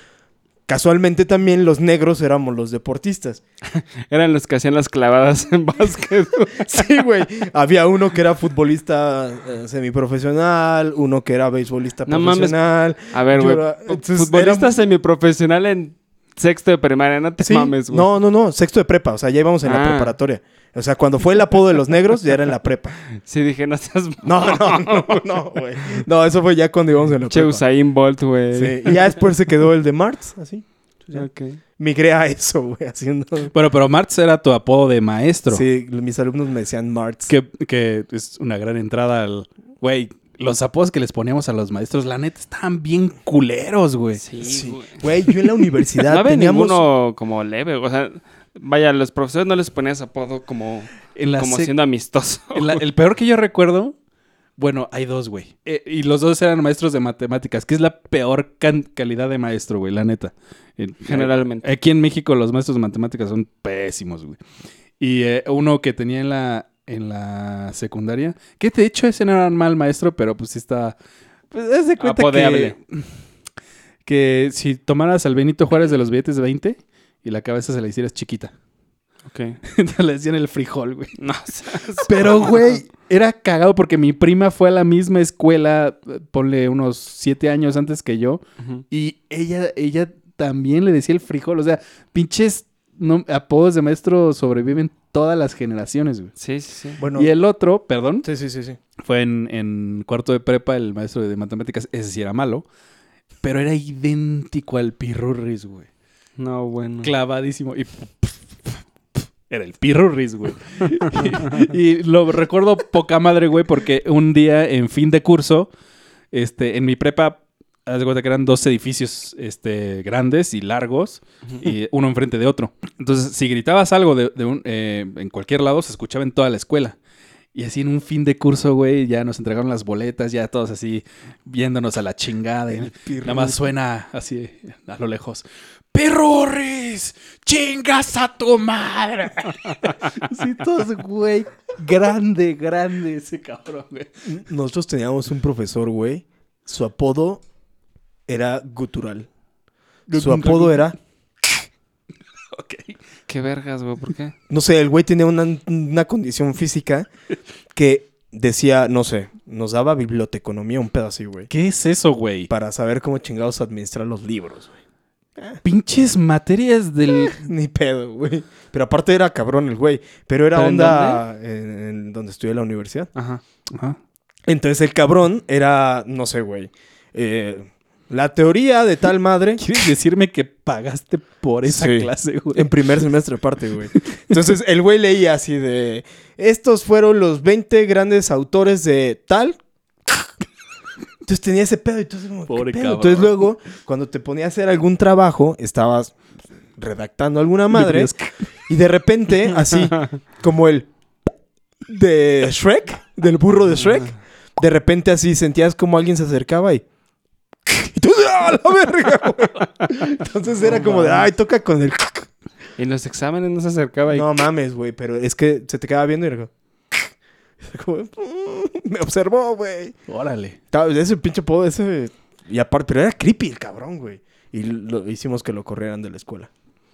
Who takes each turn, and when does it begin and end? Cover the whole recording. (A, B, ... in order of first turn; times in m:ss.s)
0:00.7-0:03.4 A
0:03.7-0:06.8 B
0:06.6-0:14.7 A
0:12.1-0:18.1 B
0:17.4-0:23.0 A
0:19.6-0:20.1 B
0:23.2-0:25.2 B
0:24.2-0:27.6 A
0:27.3-0:29.2 B
0:28.5-0:33.5 A
0:31.1-0:31.6 B
0:33.5-0:35.6 C
0:35.5-0:37.3 A
0:37.3-0:44.2 C
0:44.2-0:45.0 B
0:44.4-0:46.8 A
0:46.1-0:52.8 B
0:51.1-0:51.7 C
0:52.5-0:53.9 C
0:54.6-1:04.4 C
1:01.0-1:01.7 B
1:05.0-1:11.0 C
1:11.5-1:13.1 C
1:12.0-1:12.8 B
1:14.0-1:18.5 C
1:19.2-1:19.6 B
1:19.6-1:21.2 C
1:21.2-1:22.8 B
1:22.0-1:36.3 C
1:36.4-1:37.0 B
1:37.0-1:37.3 A
1:37.1-1:38.3 C
1:38.2-1:38.8 A
1:39.0-1:42.6 C
1:43.4-1:45.9 C
1:46.4-1:47.1 B
1:47.0-1:48.8 C
1:49.5-1:55.7 C
1:56.3-2:07.0 C
2:07.5-2:24.2 C
2:12.7-2:13.7 A
2:24.2-2:27.4 A
2:28.3-2:29.3 A
2:30.1-2:30.9 C
2:30.1-2:31.0 A
2:32.5-2:33.0 C
2:33.3-2:34.3 B
2:34.5-2:37.1 A
2:37.7-2:41.5 A
2:41.5-2:42.5 C
2:42.5-2:44.7 A
2:45.4-2:45.6 A
2:45.6-2:47.5 C
2:47.3-2:53.1 A
2:50.5-2:51.2 B
2:53.2-2:54.0 C
2:54.5-2:59.6 A
2:59.6-3:02.8 C
3:01.6-3:10.3 A
3:11.2-3:16.2 A
3:12.5-3:13.5 C
3:16.8-3:18.1 A
3:17.7-3:18.3 C
3:18.7-3:20.9 A
3:21.9-3:26.8 A
3:27.7-3:32.3 A
3:30.7-3:31.3 C
3:32.8-3:34.3 B
3:34.1-3:37.1 A
3:37.6-3:39.9 A
3:40.1-3:40.6 C
3:40.7-3:46.5 A